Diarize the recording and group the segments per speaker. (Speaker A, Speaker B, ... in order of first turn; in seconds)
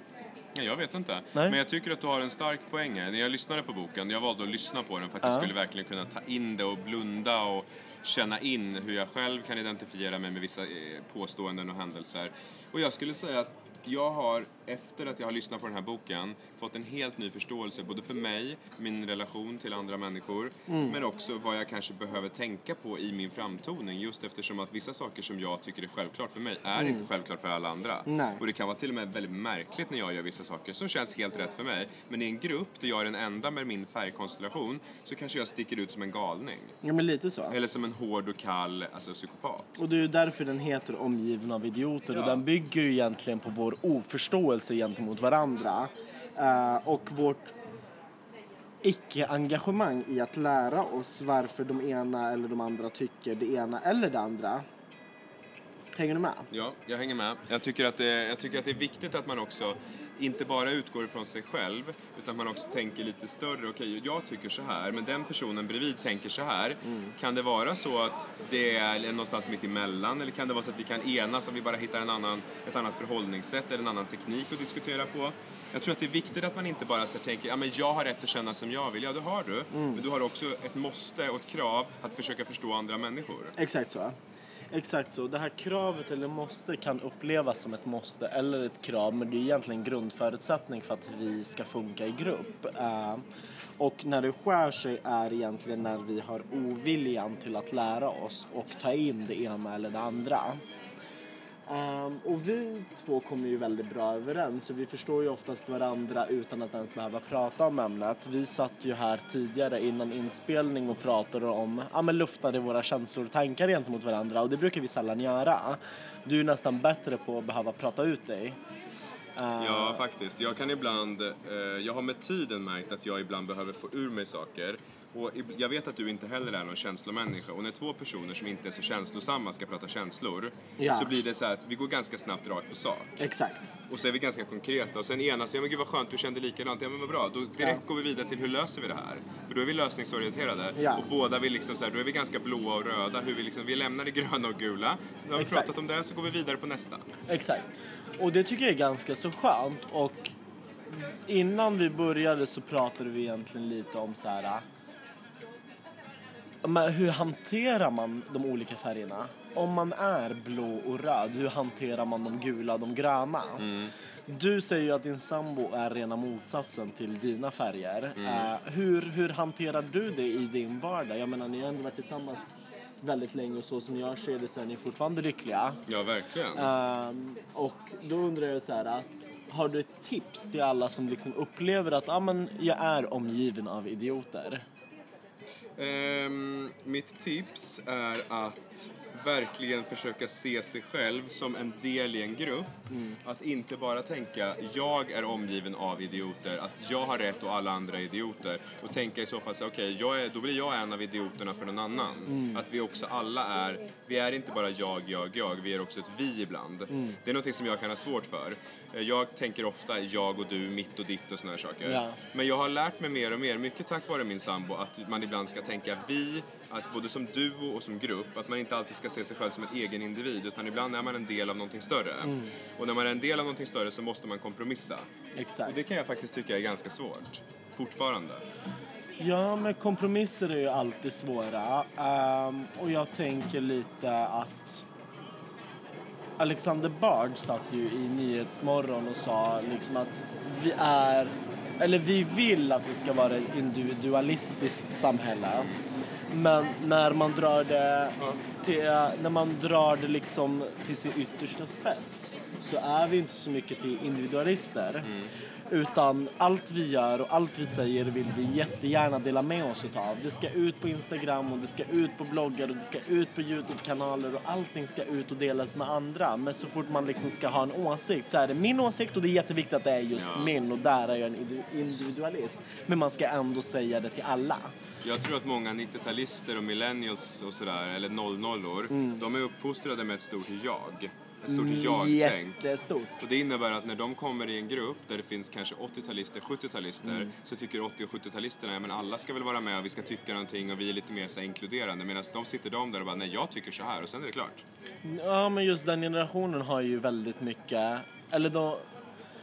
Speaker A: 0.5-36.8, 37.5-39.8, 42.1-42.4, 56.5-83.5, 119.6-133.2, 133.9-147.1, 163.6-163.9, 168.2-168.5, 175.9-176.7, 185.8-225.1, 225.6-228.4, 245.5-245.8, 255.0-255.3, 270.1-270.6, 275.0-282.6, 283.2-294.6
Speaker B: 5.2-5.5, 20.7-21.0, 26.8-27.1, 28.1-28.4, 36.8-37.6, 39.8-47.5, 48.8-54.6, 56.0-56.5, 66.8-67.1, 79.7-80.0, 83.6-84.2, 84.7-93.2, 93.8-100.6, 101.7-118.6, 119.3-120.0, 130.8-131.1, 133.2-133.7, 140.8-141.0, 145.3-145.7, 147.3-150.3, 150.9-154.6, 156.6-163.7, 164.3-175.8, 176.5-184.6, 192.9-193.2, 202.3-202.6, 206.9-207.2, 211.8-212.2, 222.2-222.5, 225.3-225.8, 229.2-234.8, 236.4-245.7, 246.3-255.1, 255.7-274.7, 278.9-279.2, 281.5-283.2, 287.0-287.3, 295.0-298.9